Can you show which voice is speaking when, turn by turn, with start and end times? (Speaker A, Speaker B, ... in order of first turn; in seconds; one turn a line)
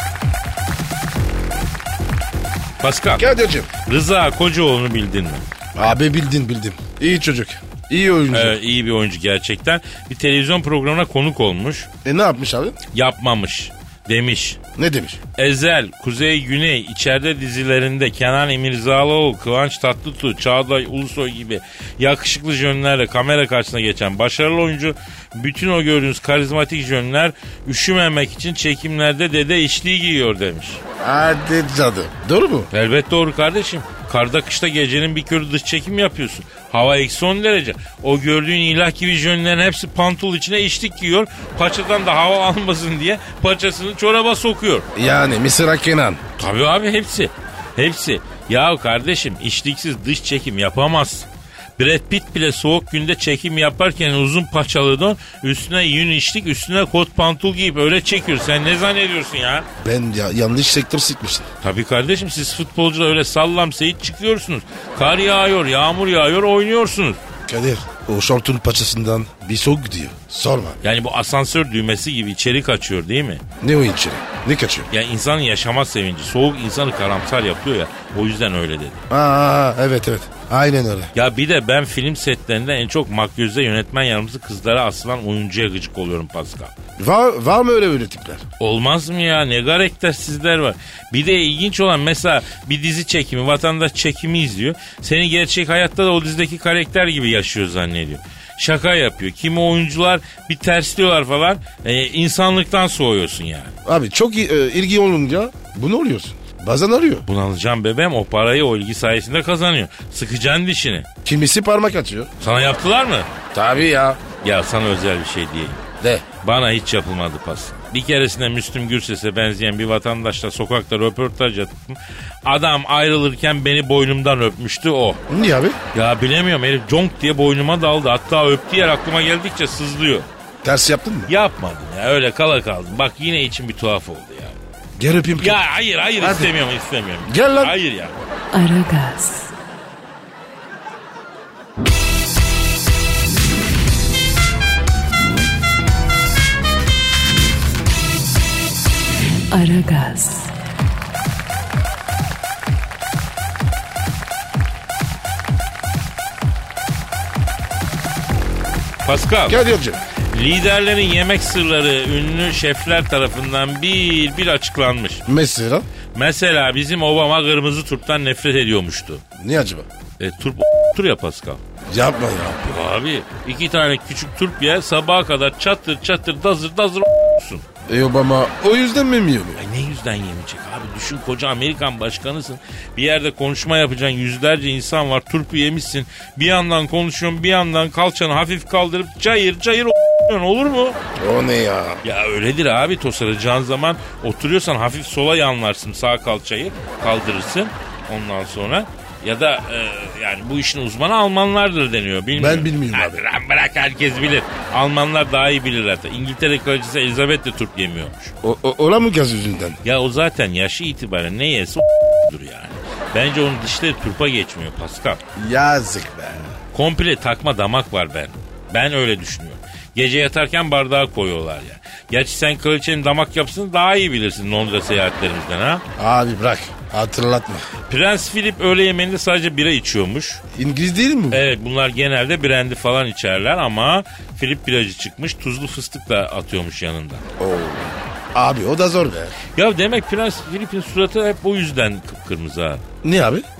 Speaker A: 2.8-3.2
Speaker B: 3.2-3.7
Speaker A: 3.8-5.5
Speaker B: 5.8-8.6
Speaker A: 8.3-11.9
Speaker B: 12.0-12.8
Speaker A: 12.9-14.6
Speaker B: 14.8-15.2
Speaker A: 15.4-30.8
Speaker B: 31.0-32.7
Speaker A: 32.7-44.9
Speaker B: 45.0-46.2
Speaker A: 46.4-59.7
Speaker B: 59.8-61.5
Speaker A: 61.6-67.2
Speaker B: 67.5-70.8
Speaker A: 70.8-73.4
Speaker B: 73.6-74.9
Speaker A: 74.9-79.0
Speaker B: 79.1-81.1
Speaker A: 81.2-86.7
Speaker B: 87.0-88.4
Speaker A: 88.6-103.8
Speaker B: 103.8-107.3
Speaker A: 107.3-111.1
Speaker B: 111.2-112.3
Speaker A: 112.4-113.3
Speaker B: 113.5-114.2
Speaker A: 114.4-115.8
Speaker A: 116.4-125.2
Speaker B: 125.3-125.8
Speaker A: 125.9-130.3
Speaker B: 130.6-131.3
Speaker A: 131.3-134.6
Speaker B: 135.0-135.6
Speaker A: 135.4-138.2
Speaker B: 136.2-136.5
Speaker B: 137.2-137.8
Speaker C: 138.5-139.5
Speaker C: 149.5-150.5
Speaker A: 159.0-159.6
Speaker B: 159.5-160.0
Speaker A: 160.3-165.2
Speaker B: 165.3-165.9
Speaker A: 166.1-169.2
Speaker B: 169.4-169.9
Speaker A: 170.2-171.6
Speaker B: 171.9-172.6
Speaker A: 172.6-177.7
Speaker B: 177.9-179.6
Speaker A: 179.6-191.0
Speaker B: 191.2-192.0
Speaker A: 192.0-208.3
Speaker B: 202.4-203.2
Speaker B: 208.4-209.8
Speaker A: 209.8-215.2
Speaker B: 215.4-216.5
Speaker A: 216.7-225.8
Speaker B: 226.0-227.7
Speaker A: 227.9-230.4
Speaker B: 230.6-231.4
Speaker A: 231.3-237.2
Speaker B: 237.4-239.3
Speaker A: 239.6-242.8
Speaker B: 243.0-243.5